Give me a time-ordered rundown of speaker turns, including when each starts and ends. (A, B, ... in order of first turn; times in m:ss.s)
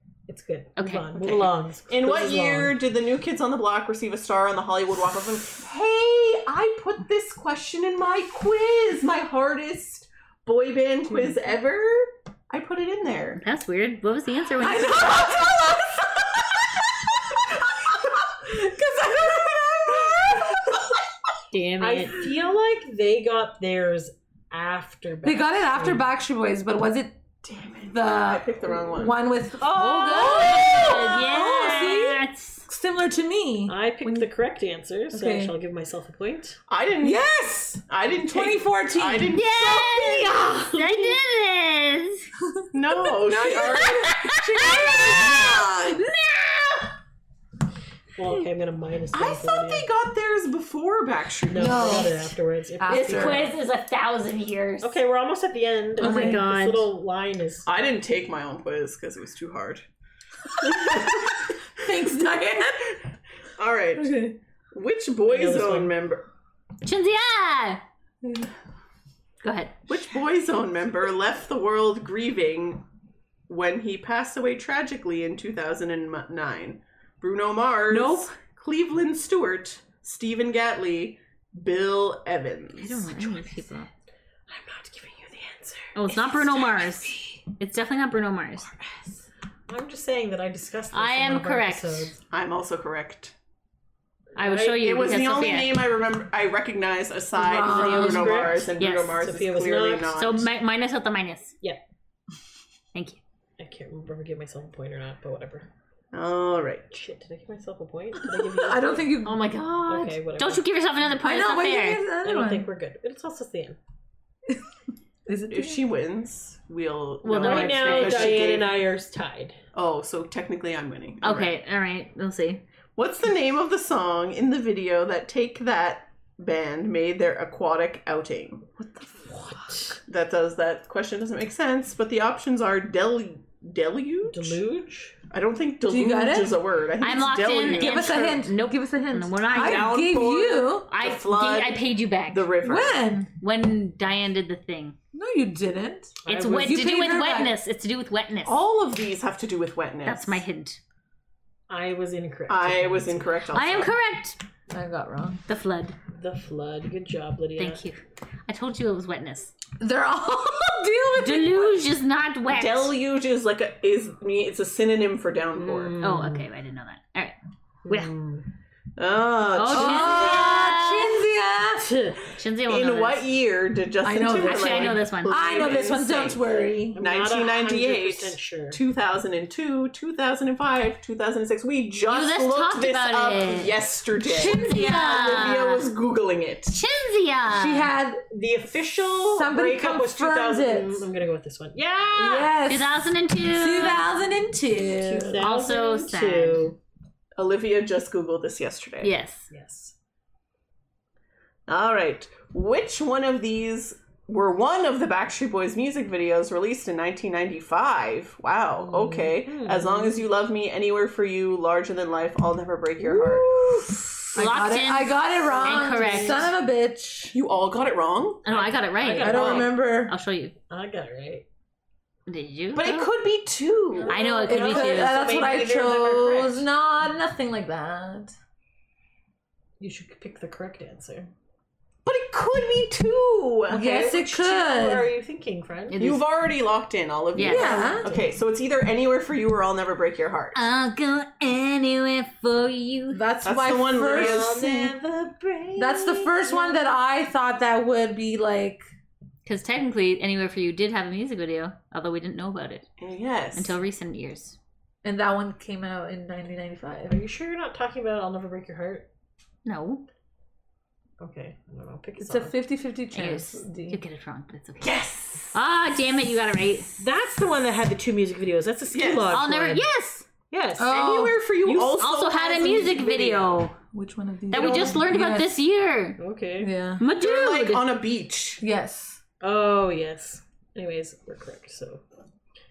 0:00.3-0:02.8 A
0:00.8-0:01.2 B
0:01.2-0:13.4 C
0:13.4-0:15.3 B
0:14.6-0:21.0 D
0:21.5-0:22.2 B
0:21.8-0:26.0 A
0:25.2-0:27.2 D
0:27.4-0:29.2 C
0:27.9-0:34.3 D
0:29.6-0:31.0 A
0:29.8-0:32.7 B
0:33.7-0:36.6 A
0:35.1-0:35.5 D
0:36.7-0:37.3 C
0:37.0-0:41.1 D
0:37.8-0:40.5 C
0:39.3-0:42.2 B
0:42.6-0:46.2 D
0:42.7-0:44.8 C
0:43.8-0:45.5 B
0:48.2-0:49.9 A
0:49.1-0:52.2 C
0:51.5-0:53.5 A
0:51.5-0:53.5 D
0:52.9-0:55.0 B
0:54.8-0:57.7 A
0:56.0-0:56.9 B
0:56.0-0:56.4 D
0:57.6-0:59.8 C
1:00.6-1:01.5 C
1:00.6-1:03.0 D
1:03.6-1:06.2 C
1:04.0-1:04.3 D
1:05.3-1:05.9 A
1:06.8-1:07.8 B
1:09.4-1:09.8 B
1:09.9-1:12.8 C
1:13.5-1:23.2 C
1:17.9-1:18.3 A
1:22.8-1:23.9 B
1:23.3-1:23.6 A
1:24.5-1:27.4 A
1:25.9-1:28.7 B
1:28.6-1:32.2 A
1:30.9-1:32.1 B
1:32.3-1:33.3 C
1:34.3-1:35.0 A
1:34.3-1:35.8 B
1:34.8-1:40.5 C
1:37.4-1:38.7 D
1:37.6-1:40.1 A
1:38.8-1:39.2 B
1:40.1-1:41.5 B
1:42.9-1:43.2 B
1:43.6-1:45.7 A
1:46.1-1:46.9 C
1:46.9-1:49.1 A
1:48.5-1:49.5 D
1:49.2-1:52.0 B
1:49.8-1:50.6 A
1:51.2-1:52.7 D
1:52.2-1:53.8 A
1:55.2-1:55.8 D
1:55.5-1:58.7 C
1:57.2-1:58.5 B
1:57.3-1:59.6 A
1:59.7-2:01.5 C
2:01.2-2:02.6 B
2:03.0-2:08.6 C
2:08.8-2:09.9 D
2:09.3-2:10.0 A
2:10.1-2:14.6 C
2:14.3-2:15.1 A
2:15.3-2:18.2 C
2:15.9-2:16.6 D
2:17.0-2:20.0 B
2:17.7-2:20.9 D
2:19.5-2:23.0 C
2:20.9-2:22.5 B
2:22.6-2:23.3 D
2:23.4-2:25.0 B
2:25.1-2:27.5 D
2:26.2-2:26.8 A
2:26.3-2:28.6 B
2:28.4-2:30.4 C
2:30.0-2:30.8 B
2:31.7-2:33.3 A
2:32.5-2:33.9 C
2:33.5-2:34.4 B
2:34.7-2:35.4 D
2:35.5-2:36.0 B
2:36.1-2:37.8 A
2:37.6-2:39.5 B
2:39.8-2:41.8 D
2:41.2-2:42.9 B
2:42.5-2:46.0 C
2:45.5-2:46.4 A
2:46.0-2:47.3 B
2:47.8-2:48.4 A
2:47.9-2:48.1 B
2:49.0-2:50.7 C
2:49.6-2:51.2 B
2:49.7-2:52.1 D
2:51.8-2:52.2 A
2:52.3-2:53.2 B
2:52.6-3:06.8 C
2:54.0-2:57.0 D
2:54.4-2:55.4 B
2:56.9-2:58.8 A
3:02.1-3:03.7 B
3:04.2-3:05.6 D
3:04.3-3:05.9 B
3:06.7-3:07.9 B
3:07.5-3:08.2 D
3:08.3-3:12.5 A
3:09.1-3:11.1 D
3:12.1-3:15.4 D
3:12.6-3:14.0 B
3:14.9-3:16.8 A
3:15.4-3:16.7 B
3:17.4-3:19.1 C
3:19.0-3:19.5 B
3:19.5-3:19.9 A
3:21.7-3:33.6 C
3:28.8-3:30.2 A
3:33.0-3:34.2 A
3:33.6-3:37.4 D
3:34.3-3:36.5 B
3:35.4-3:36.5 A
3:37.3-3:38.4 C
3:38.4-3:40.5 B
3:38.4-3:39.8 A
3:39.2-3:40.2 D
3:39.4-3:39.6 C
3:40.7-3:41.4 A
3:42.3-3:43.1 B
3:42.7-3:44.2 C
3:44.0-3:46.6 A
3:44.1-3:45.4 B
3:44.4-3:48.3 D
3:49.8-3:51.3 A
3:52.0-3:54.0 C
3:53.7-3:55.1 D
3:53.8-3:56.0 A
3:55.9-3:56.2 B
3:56.0-4:00.6 C
3:57.4-3:58.0 B
3:57.4-3:58.1 D
3:58.0-3:58.3 A
4:00.5-4:03.2 B
4:03.1-4:04.5 D
4:03.4-4:05.0 C
4:04.0-4:06.8 A
4:05.8-4:08.8 D
4:09.4-4:12.9 B
4:13.0-4:13.8 C
4:13.5-4:14.6 B
4:15.0-4:17.2 D
4:17.0-4:19.1 A
4:19.6-4:20.0 B
4:21.2-4:22.6 A
4:22.2-4:24.0 D
4:23.1-4:25.0 B
4:24.8-4:25.6 C
4:25.5-4:26.9 B
4:27.0-4:29.8 A
4:28.9-4:29.4 C
4:29.3-4:30.2 B
4:30.5-4:31.0 A
4:30.8-4:31.4 D
4:30.9-4:33.6 C
4:31.6-4:32.0 A
4:32.0-4:33.8 B
4:33.9-4:35.6 D
4:34.5-4:36.2 B
4:36.2-4:36.7 A
4:36.6-4:37.0 D
4:37.0-4:37.9 B
4:37.1-4:38.6 C
4:38.6-4:39.2 D
4:39.4-4:42.0 A